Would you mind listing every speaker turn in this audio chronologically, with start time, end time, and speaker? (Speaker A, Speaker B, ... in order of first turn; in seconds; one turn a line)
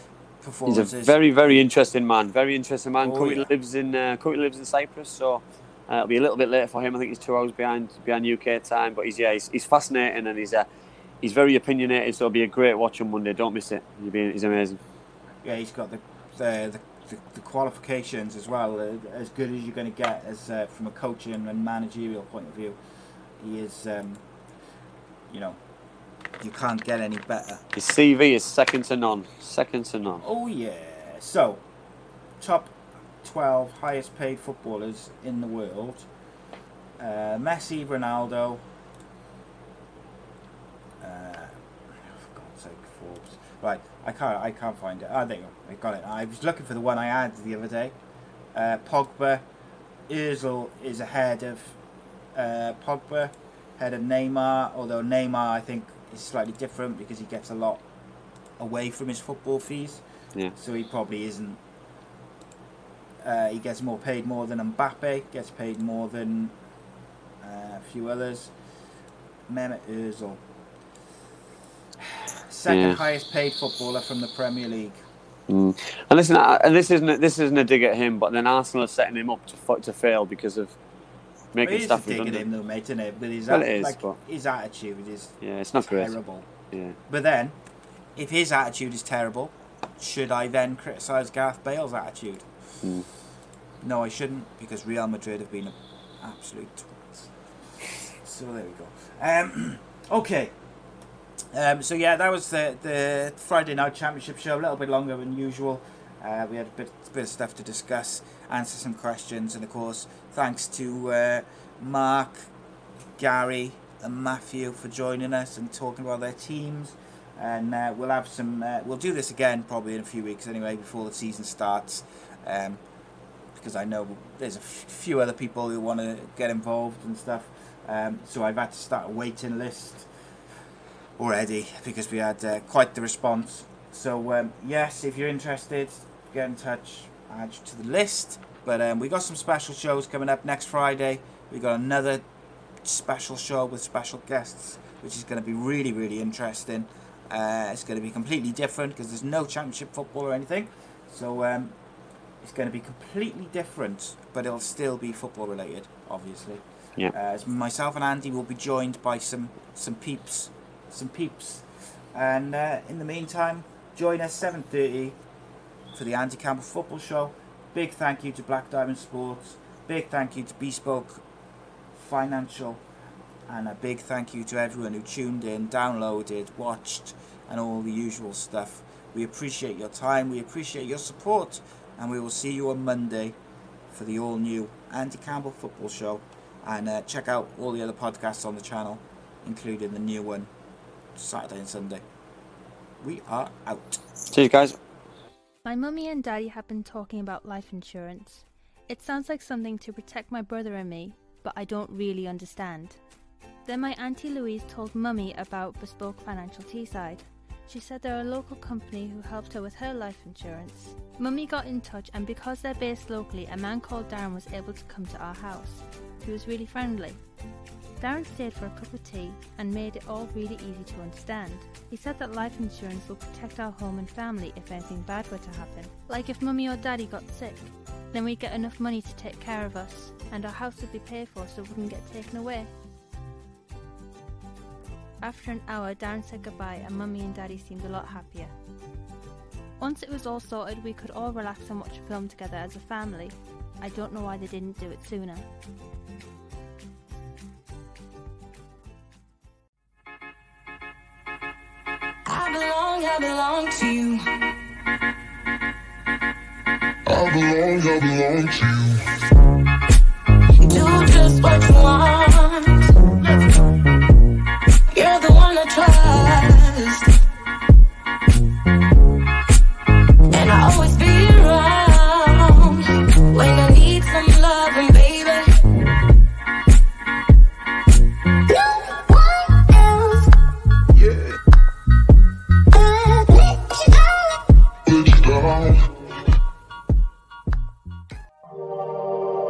Speaker A: 0.4-1.6
Speaker B: 0.7-10.7
Speaker A: 3.0-3.5
Speaker B: 11.2-14.8
Speaker A: 15.4-22.8
Speaker A: 23.4-24.2
Speaker A: 25.3-25.6
Speaker A: 26.4-27.6
Speaker B: 27.7-30.2
Speaker A: 30.2-31.6
Speaker A: 32.4-36.1
Speaker A: 37.0-38.6
Speaker A: 41.0-48.0
Speaker A: 48.5-49.4
Speaker A: 50.1-51.8
Speaker A: 52.3-57.8
Speaker A: 58.6-60.0
Speaker A: 60.5-61.6
Speaker A: 63.2-66.5
Speaker A: 67.4-68.5
Speaker A: 69.5-70.4
Speaker A: 72.0-75.0
Speaker B: 72.7-73.0
Speaker B: 75.5-80.7
Speaker B: 81.5-82.4
Speaker A: 81.6-86.5
Speaker B: 83.5-84.2
Speaker B: 85.4-86.2
Speaker A: 87.1-87.6
Speaker A: 88.2-92.5
Speaker A: 93.8-97.3
Speaker A: 98.1-100.5
Speaker A: 101.5-112.5
Speaker A: 113.2-122.8
Speaker A: 123.5-130.1
Speaker A: 131.2-142.2
Speaker A: 142.8-151.8
Speaker A: 152.4-165.2
Speaker A: 165.9-171.2
Speaker A: 171.9-172.8
Speaker A: 173.5-183.4
Speaker A: 183.9-190.5
Speaker A: 191.1-192.0
Speaker A: 193.0-194.0
Speaker B: 194.3-194.8
Speaker C: 195.6-203.0
Speaker C: 203.6-217.2
Speaker C: 218.0-232.7
Speaker C: 235.2-238.5
Speaker C: 239.8-245.4
Speaker D: 252.2-254.2
Speaker E: 257.1-259.1
Speaker D: 260.6-262.9
Speaker D: 264.9-267.1
Speaker D: 270.3-275.5
Speaker D: 278.9-280.2
Speaker E: 280.9-281.4
Speaker D: 282.8-283.5
Speaker E: 284.9-285.9